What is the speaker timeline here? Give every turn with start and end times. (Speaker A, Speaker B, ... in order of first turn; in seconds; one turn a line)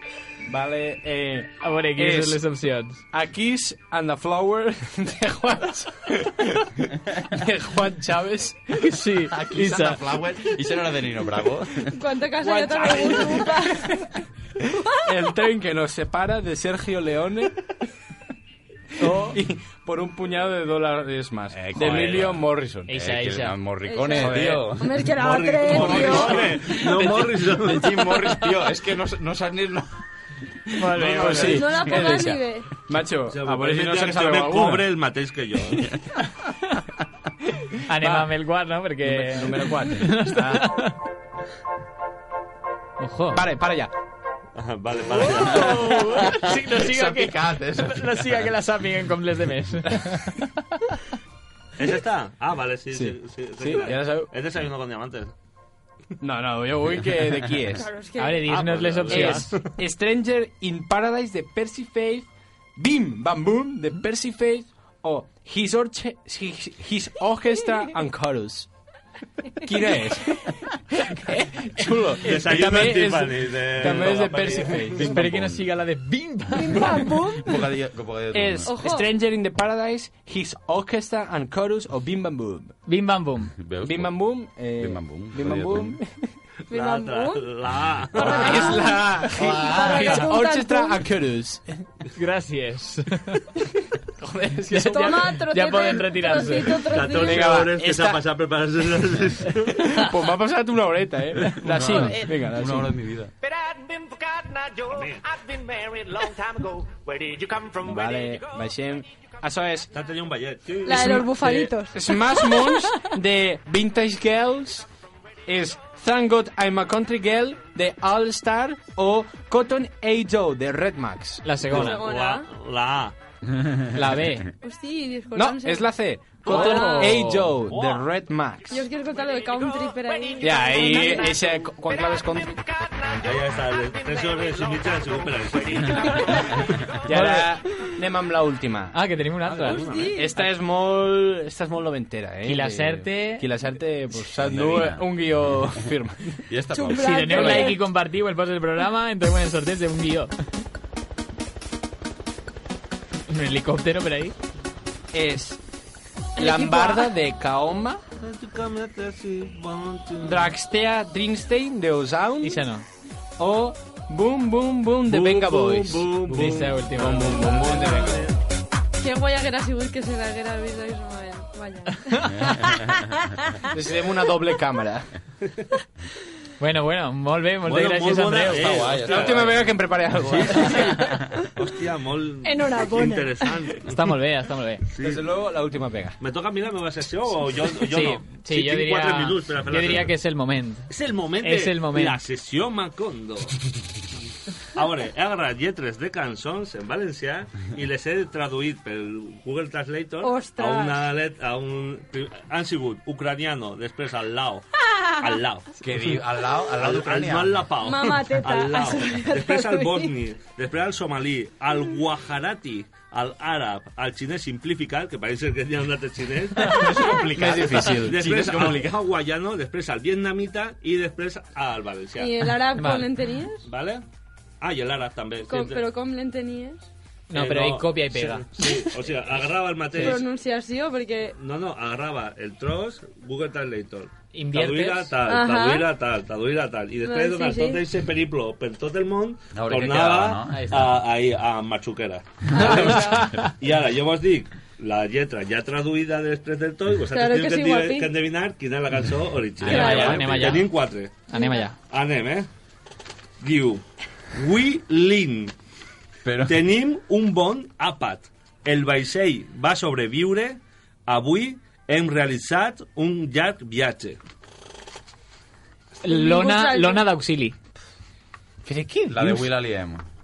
Speaker A: 0.5-2.4
Speaker B: 1.6-3.0
Speaker A: 3.1-8.7
Speaker B: 8.8-10.0
Speaker C: 9.3-11.9
Speaker D: 11.9-14.0
Speaker A: 12.4-14.0
Speaker A: 15.0-17.7
Speaker B: 19.0-19.4
Speaker A: 19.1-22.9
Speaker C: 21.5-24.9
Speaker B: 22.9-23.6
Speaker D: 23.9-26.5
Speaker A: 24.2-24.7
Speaker E: 25.1-28.1
Speaker A: 25.8-26.5
Speaker C: 25.8-29.9
Speaker B: 30.8-31.6
Speaker C: 30.9-31.4
Speaker E: 31.0-31.6
Speaker A: 31.1-34.9
Speaker D: 31.4-32.7
Speaker E: 33.3-35.9
Speaker B: 37.8-41.0
Speaker A: 37.9-38.3
Speaker A: 39.0-40.8
Speaker B: 43.0-43.5
Speaker A: 43.3-43.9
Speaker E: 44.6-46.0
Speaker B: 45.4-50.3
Speaker C: 46.2-48.3
Speaker E: 51.8-55.3
Speaker A: 52.9-54.3
Speaker A: 56.2-57.9
Speaker D: 57.8-58.5
Speaker B: 58.2-59.5
Speaker E: 58.5-59.7
Speaker A: 59.1-68.7
Speaker A: 69.6-75.3
Speaker E: 72.2-75.0
Speaker C: 75.0-75.7
Speaker B: 75.0-77.0
Speaker D: 76.5-77.7
Speaker C: 77.4-78.7
Speaker A: 78.3-82.8
Speaker D: 78.7-79.1
Speaker B: 82.9-83.5
Speaker C: 83.6-86.0
Speaker A: 83.8-86.3
Speaker D: 86.7-87.5
Speaker E: 86.7-88.6
Speaker D: 88.2-91.0
Speaker A: 88.2-91.7
Speaker C: 88.2-88.6
Speaker B: 89.6-90.2
Speaker B: 92.1-93.5
Speaker A: 94.2-95.3
Speaker B: 94.7-96.9
Speaker D: 94.9-97.6
Speaker E: 96.9-99.7
Speaker A: 97.2-98.2
Speaker A: 99.7-103.0
Speaker C: 101.6-103.3
Speaker A: 103.7-104.4
Speaker E: 104.9-105.2
Speaker A: 105.5-109.9
Speaker E: 109.9-111.7
Speaker D: 110.8-112.9
Speaker A: 111.0-111.2
Speaker A: 111.9-114.9
Speaker A: 115.5-121.5
Speaker B: 121.4-122.0
Speaker D: 121.7-122.5
Speaker E: 121.7-123.2
Speaker C: 123.5-123.9
Speaker B: 123.9-124.5
Speaker D: 124.6-125.9
Speaker A: 125.3-128.9
Speaker B: 126.4-127.5
Speaker D: 126.5-127.2
Speaker E: 126.5-128.1
Speaker D: 128.7-131.4
Speaker A: 130.4-132.7
Speaker E: 133.2-136.5
Speaker A: 137.1-139.0
Speaker B: 137.1-137.5
Speaker B: 138.9-139.8
Speaker E: 139.4-140.5
Speaker D: 139.7-140.3
Speaker A: 140.2-146.4
Speaker B: 142.4-143.5
Speaker C: 144.4-145.1
Speaker C: 146.5-147.7
Speaker D: 146.7-147.8
Speaker B: 146.9-150.3
Speaker A: 147.4-147.7
Speaker B: 153.3-154.3
Speaker A: 155.1-155.6
Speaker D: 156.4-157.1
Speaker A: 156.4-158.0
Speaker E: 158.2-160.6
Speaker A: 160.2-162.6
Speaker B: 162.4-162.8
Speaker A: 163.4-168.3
Speaker E: 165.1-168.3
Speaker B: 166.3-167.6
Speaker D: 169.0-173.0
Speaker C: 172.3-173.1
Speaker A: 173.7-175.1
Speaker B: 176.6-178.7
Speaker E: 177.7-179.5
Speaker C: 178.5-179.7
Speaker A: 179.1-181.0
Speaker C: 180.4-181.2
Speaker E: 181.6-183.9
Speaker D: 182.4-183.5
Speaker B: 183.8-184.8
Speaker E: 184.9-185.3
Speaker A: 185.0-186.2
Speaker E: 186.2-190.1
Speaker B: 187.9-190.9
Speaker E: 190.9-193.6
Speaker B: 191.4-192.2
Speaker E: 194.8-204.7
Speaker D: 200.2-201.0
Speaker E: 205.2-206.2
Speaker C: 205.8-207.7
Speaker E: 206.7-216.9
Speaker D: 207.8-210.1
Speaker C: 216.7-219.0
Speaker A: 217.3-218.4
Speaker E: 217.9-222.5
Speaker D: 222.2-223.6
Speaker B: 222.7-223.1
Speaker E: 223.7-224.0
Speaker E: 224.6-225.8
Speaker D: 225.5-226.9
Speaker B: 227.3-228.5
Speaker E: 227.3-230.3
Speaker D: 230.0-231.3
Speaker E: 231.4-251.3
Speaker B: 234.3-235.1
Speaker D: 235.3-235.9
Speaker D: 237.0-237.8
Speaker C: 239.5-240.9
Speaker B: 240.5-240.9
Speaker C: 242.5-243.5
Speaker D: 242.5-243.2
Speaker B: 243.1-243.4
Speaker D: 247.1-248.1
Speaker C: 249.6-250.7
Speaker B: 249.7-250.7
Speaker D: 249.7-250.2
Speaker B: 251.3-251.8
Speaker D: 251.3-251.6
Speaker E: 251.9-252.5
Speaker E: 253.4-255.5
Speaker C: 256.2-256.6
Speaker E: 256.5-264.2
Speaker B: 266.0-267.6
Speaker D: 266.1-267.0
Speaker A: 268.6-269.5
Speaker C: 269.1-270.0